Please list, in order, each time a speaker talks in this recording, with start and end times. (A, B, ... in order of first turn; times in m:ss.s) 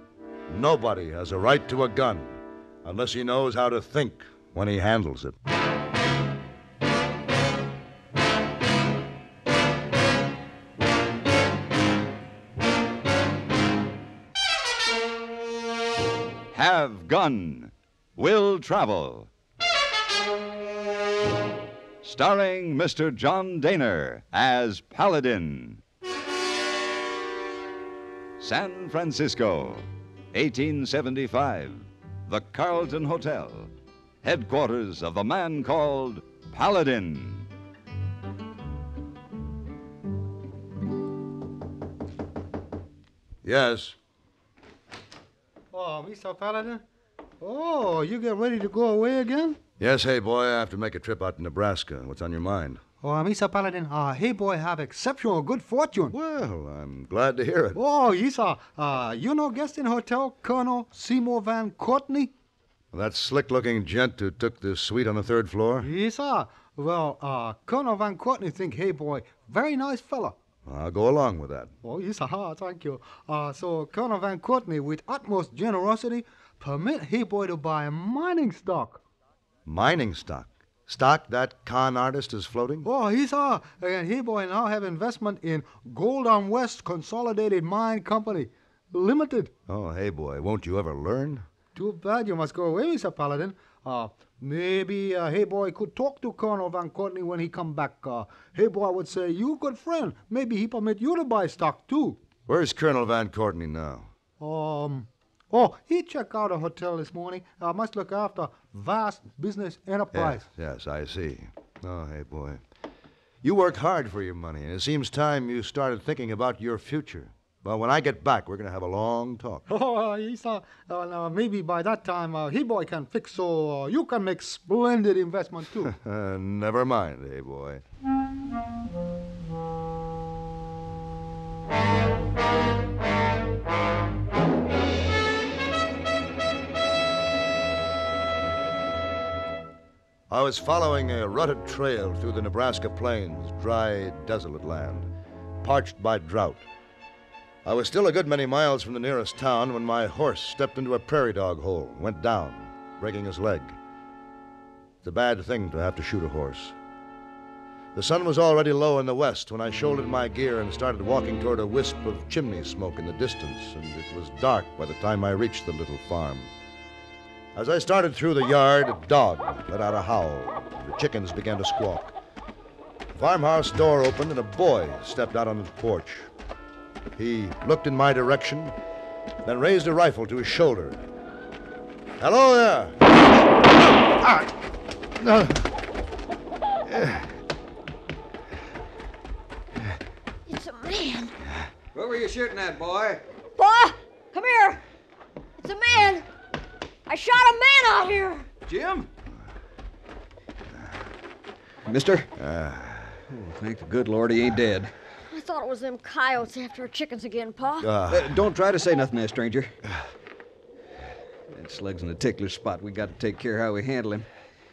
0:00.5-0:05.4 A
0:16.5-0:19.3 B
0:22.0-0:25.8 B
0:28.4-0:37.5 B
0:43.4-0:44.0 A
0:45.7-0:46.8 C
0:47.4-0:49.6 C
0:49.8-0:52.8 A
0:53.0-0:56.1 C
0:56.1-0:57.8 A
0:57.7-1:02.3 C
1:02.9-1:05.9 A
1:05.8-1:10.4 C
1:10.6-1:11.7 A
1:11.8-1:19.0 C
1:19.6-1:22.9 A
1:22.8-1:29.5 C
1:29.7-1:31.5 A
1:31.7-1:42.2 C
1:42.4-1:44.1 A
1:44.4-1:50.4 C
1:50.1-1:52.6 A
1:53.4-1:59.6 A
1:59.7-2:05.9 C
2:05.8-2:07.8 A
2:20.3-2:25.1 A
2:25.6-2:26.7 A
2:27.6-2:33.8 A
2:35.0-2:36.8 A
2:37.9-2:46.5 A
2:47.5-2:52.2 A
2:53.1-2:56.3 A
2:57.2-2:58.8 A
2:59.4-3:01.0 A
3:02.2-3:03.0 A
3:04.2-3:04.5 A
3:05.2-3:05.7 A
3:06.8-3:07.3 A
3:10.5-3:11.3 D
3:11.9-3:13.2 E
3:13.6-3:14.8 D
3:15.6-3:16.2 D
3:17.0-3:18.5 D
3:18.7-3:19.1 E
3:21.8-3:22.3 E
3:22.4-3:23.2 A
3:23.3-3:24.9 E
3:25.3-3:27.9 D
3:27.8-3:28.4 A
3:28.1-3:29.8 E
3:31.5-3:34.3 E